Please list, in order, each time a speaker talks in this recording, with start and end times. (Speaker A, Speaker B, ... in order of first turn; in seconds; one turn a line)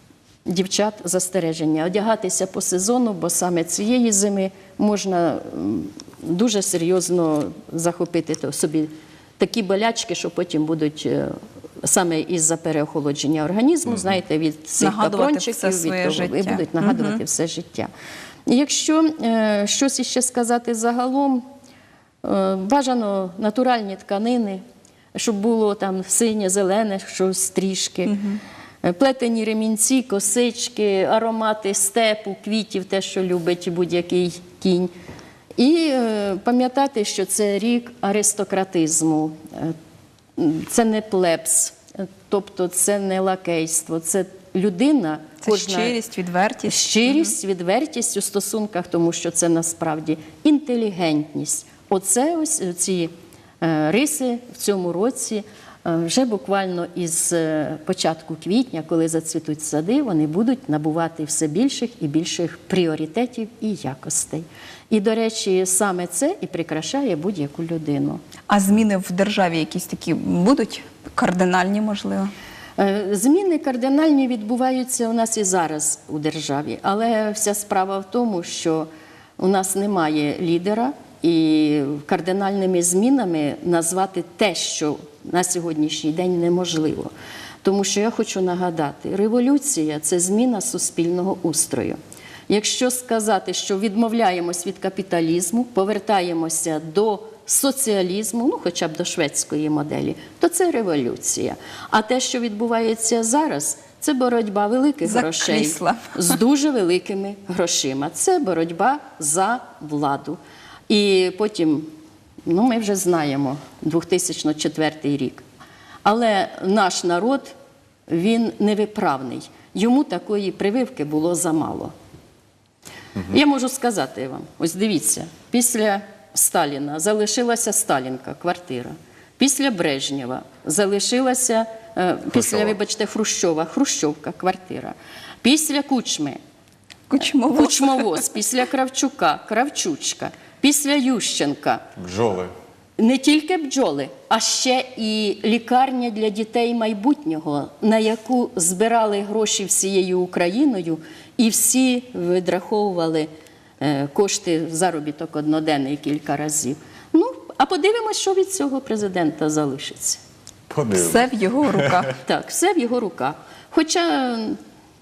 Speaker A: 0.5-17.9
Speaker B: 14.8-17.2
Speaker A: 18.4-21.4
Speaker A: 22.2-24.6
Speaker A: 25.1-28.2
Speaker B: 28.1-28.4
Speaker A: 28.8-34.9
Speaker A: 35.6-39.8
Speaker A: 40.4-46.0
Speaker B: 45.4-47.3
Speaker A: 46.6-68.2
Speaker B: 68.5-72.3
Speaker A: 72.8-87.1
Speaker A: 87.6-92.0
Speaker A: 92.5-111.9
Speaker B: 105.0-106.3
Speaker A: 112.5-115.4
Speaker A: 116.0-117.5
Speaker A: 118.1-121.9
Speaker A: 123.2-136.4
Speaker C: 132.3-132.7
Speaker B: 137.1-138.2
Speaker A: 137.5-141.8
Speaker C: 142.0-142.5
Speaker A: 143.0-160.2
Speaker C: 160.7-162.1
Speaker B: 160.9-162.1
Speaker A: 162.2-164.6